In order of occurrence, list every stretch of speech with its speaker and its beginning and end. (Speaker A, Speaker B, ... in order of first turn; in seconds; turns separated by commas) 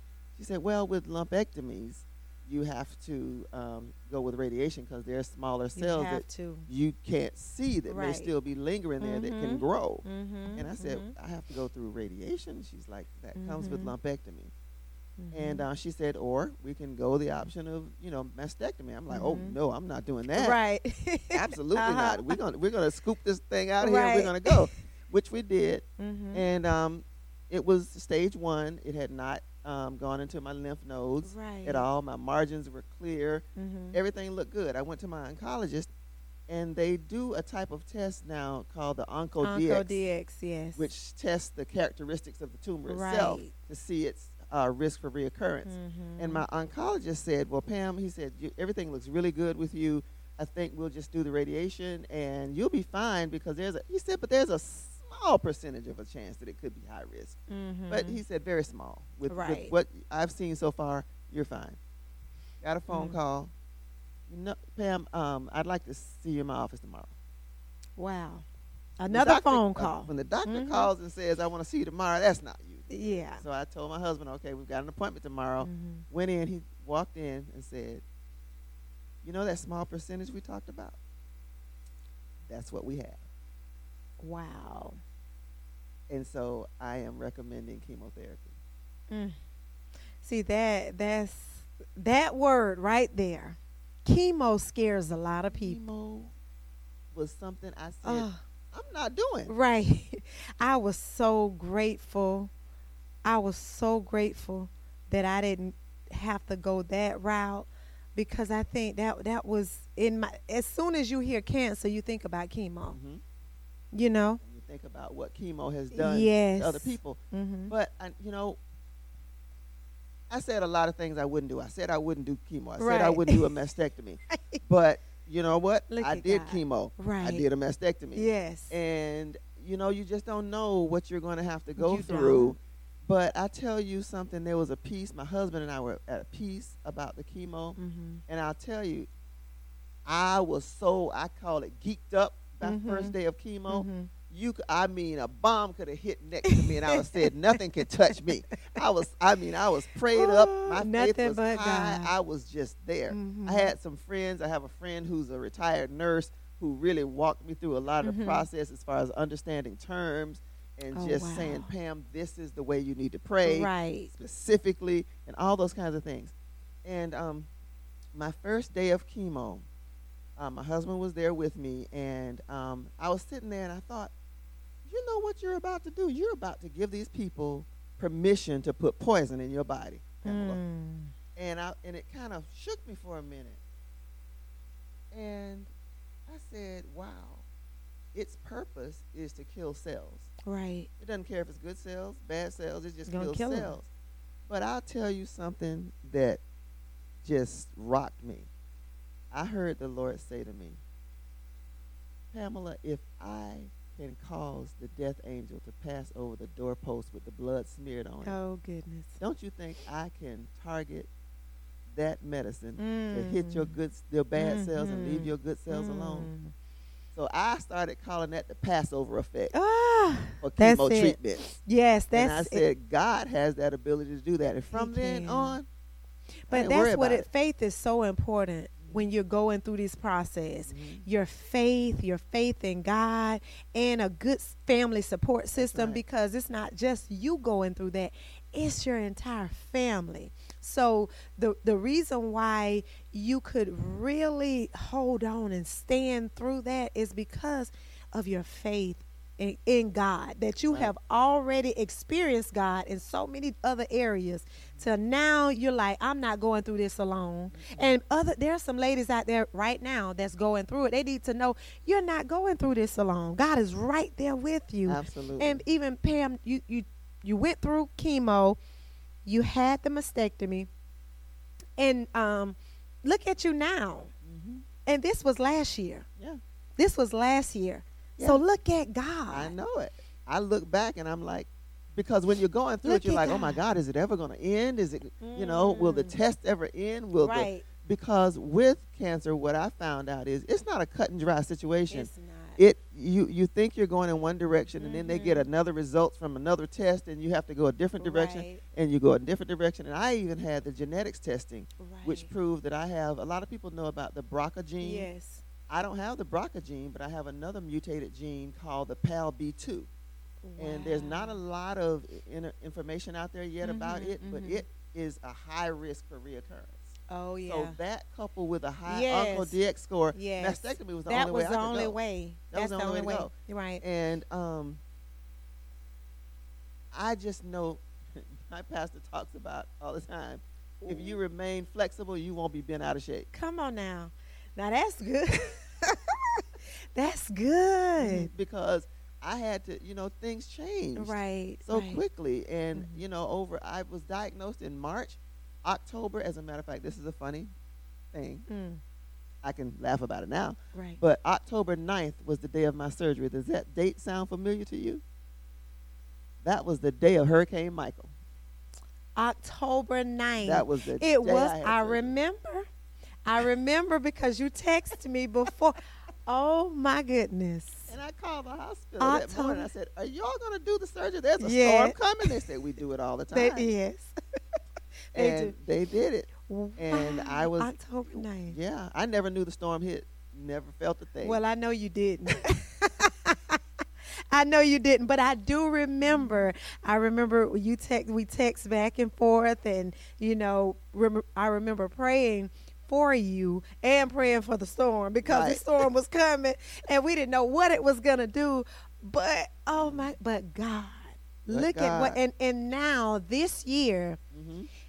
Speaker A: 0.4-14.5, Speaker B: 5.8-6.7, Speaker B: 7.9-8.3, Speaker B: 9.0-11.1, Speaker B: 13.3-13.9, Speaker B: 15.2-15.6, Speaker A: 15.3-20.6, Speaker B: 19.1-19.6, Speaker B: 20.4-22.4, Speaker A: 21.3-35.9, Speaker B: 23.8-24.6, Speaker B: 26.0-26.4, Speaker B: 31.2-31.9, Speaker B: 33.6-34.0, Speaker A: 36.5-40.0, Speaker B: 39.4-40.9, Speaker A: 40.8-57.4, Speaker B: 42.9-43.5, Speaker B: 45.6-46.5, Speaker B: 57.5-58.2, Speaker A: 57.9-61.8, Speaker B: 59.3-59.7, Speaker A: 62.6-63.5, Speaker B: 62.9-63.2, Speaker A: 64.3-67.1, Speaker B: 68.0-68.5, Speaker B: 69.0-70.9, Speaker A: 69.1-78.0, Speaker B: 72.9-73.4, Speaker B: 75.6-76.0, Speaker A: 79.2-81.0, Speaker A: 82.5-83.2, Speaker B: 84.2-85.0, Speaker A: 86.1-88.5, Speaker B: 89.1-89.4, Speaker B: 90.2-95.8, Speaker A: 95.5-96.3, Speaker A: 97.1-99.5, Speaker B: 98.0-98.4, Speaker B: 99.5-102.5, Speaker B: 103.2-113.0, Speaker A: 112.9-113.2, Speaker B: 113.9-114.4, Speaker A: 114.4-118.6, Speaker B: 115.9-117.7, Speaker A: 120.3-139.1, Speaker B: 122.8-123.5, Speaker B: 124.3-124.6, Speaker B: 125.9-127.5, Speaker B: 128.2-128.7, Speaker B: 131.8-132.6, Speaker B: 137.8-138.2, Speaker A: 140.1-166.3, Speaker B: 142.6-143.1, Speaker B: 143.7-144.1, Speaker B: 146.5-147.3, Speaker B: 150.1-152.1, Speaker B: 153.1-153.7, Speaker B: 158.0-158.4, Speaker B: 160.9-161.7, Speaker B: 163.4-164.1, Speaker A: 166.8-167.5, Speaker A: 168.1-169.7, Speaker A: 170.4-174.1, Speaker A: 174.8-180.6, Speaker B: 180.2-181.1, Speaker A: 181.4-183.6, Speaker A: 185.1-185.7, Speaker A: 186.3-187.4, Speaker A: 188.1-190.3, Speaker B: 190.4-190.9, Speaker A: 191.0-193.9, Speaker B: 193.1-193.8, Speaker A: 194.5-196.4, Speaker A: 197.2-198.5, Speaker A: 199.3-200.8, Speaker A: 202.3-208.4, Speaker B: 208.2-209.2, Speaker A: 209.2-211.1, Speaker A: 211.9-216.3, Speaker B: 212.8-213.7, Speaker B: 214.4-216.5, Speaker A: 217.2-219.5, Speaker B: 219.5-222.6, Speaker A: 220.4-221.6, Speaker A: 222.1-225.7, Speaker B: 224.7-225.6, Speaker B: 226.5-268.6, Speaker A: 226.5-227.3, Speaker A: 230.7-231.1, Speaker A: 235.6-236.0, Speaker A: 257.5-258.0, Speaker A: 264.9-265.6, Speaker B: 269.3-270.7, Speaker B: 271.8-274.1, Speaker A: 274.2-274.6, Speaker B: 274.9-276.1, Speaker B: 276.8-279.5, Speaker A: 279.3-305.1, Speaker B: 282.9-283.6, Speaker B: 285.2-286.2, Speaker B: 287.2-287.6, Speaker B: 291.9-292.6, Speaker B: 294.8-295.5, Speaker B: 298.0-298.6, Speaker B: 301.8-302.3, Speaker B: 304.8-305.4, Speaker A: 305.7-309.9, Speaker B: 310.4-311.4, Speaker A: 310.6-316.9, Speaker B: 313.6-314.6, Speaker B: 317.1-317.8, Speaker A: 317.5-322.0, Speaker B: 318.9-319.6, Speaker B: 320.1-323.8, Speaker A: 322.5-324.8, Speaker A: 326.9-333.3, Speaker B: 330.8-331.2, Speaker B: 333.3-336.4, Speaker B: 336.9-338.3, Speaker A: 338.0-347.5, Speaker B: 341.0-342.0, Speaker B: 342.7-343.0, Speaker A: 348.1-348.4, Speaker B: 348.5-348.8, Speaker A: 349.4-355.0, Speaker B: 350.7-351.0, Speaker A: 356.4-358.1, Speaker B: 359.2-362.7, Speaker A: 360.4-362.1, Speaker B: 363.2-367.9, Speaker A: 367.9-373.7, Speaker B: 369.0-369.7, Speaker B: 371.4-372.0, Speaker B: 373.3-374.1, Speaker B: 375.1-375.5, Speaker A: 375.1-381.4, Speaker B: 376.5-378.6, Speaker B: 381.2-383.6, Speaker B: 384.3-404.2, Speaker A: 386.1-386.4, Speaker A: 395.2-395.9, Speaker A: 399.8-400.1, Speaker A: 401.5-402.2, Speaker A: 404.3-404.7